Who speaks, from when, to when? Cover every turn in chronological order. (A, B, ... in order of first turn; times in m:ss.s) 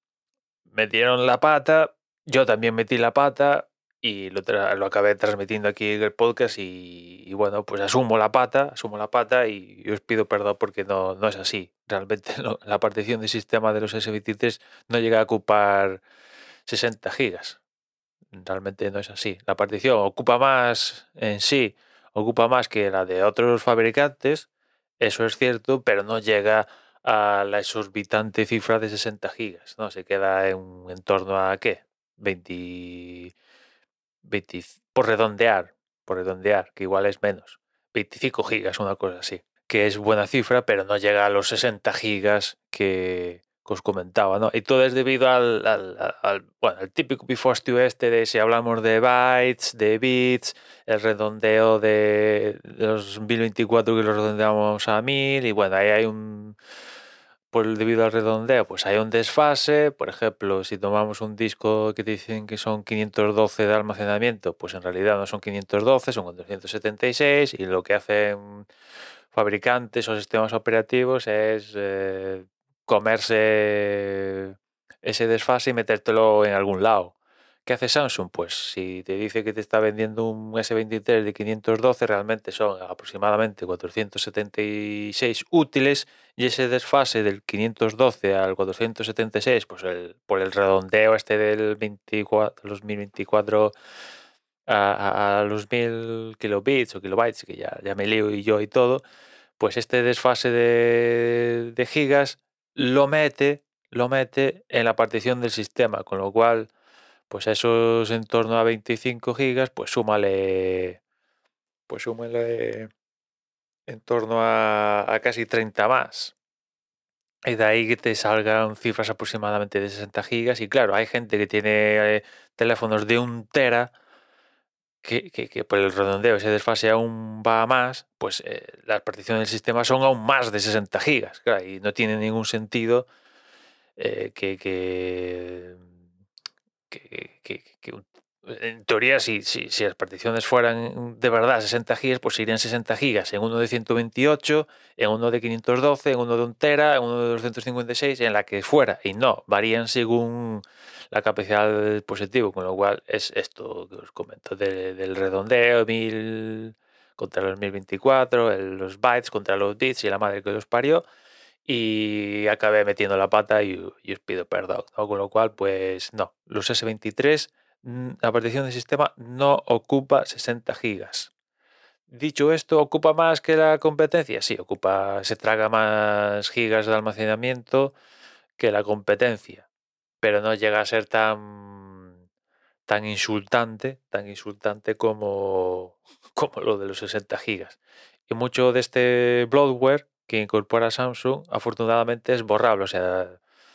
0:00.7-0:16.0 A
0:16.6-0:17.6 A
0:18.3-0:24.5 A
0:25.0-0:33.3 A
0:34.2-0:56.6 A
0:57.5-1:08.7 A
1:09.3-1:33.7 A
1:34.7-1:39.0 A
1:39.6-1:46.7 A
1:47.3-1:51.0 A
1:51.9-1:52.9 A
1:53.9-1:56.3 A
1:57.5-2:03.9 A
2:05.0-2:13.1 A
2:14.0-2:15.8 A
2:16.9-2:41.0 A
2:41.6-2:51.3 A
2:52.1-2:57.9 A
2:58.6-2:59.6 A
3:00.2-3:02.2 A
3:02.9-3:13.4 A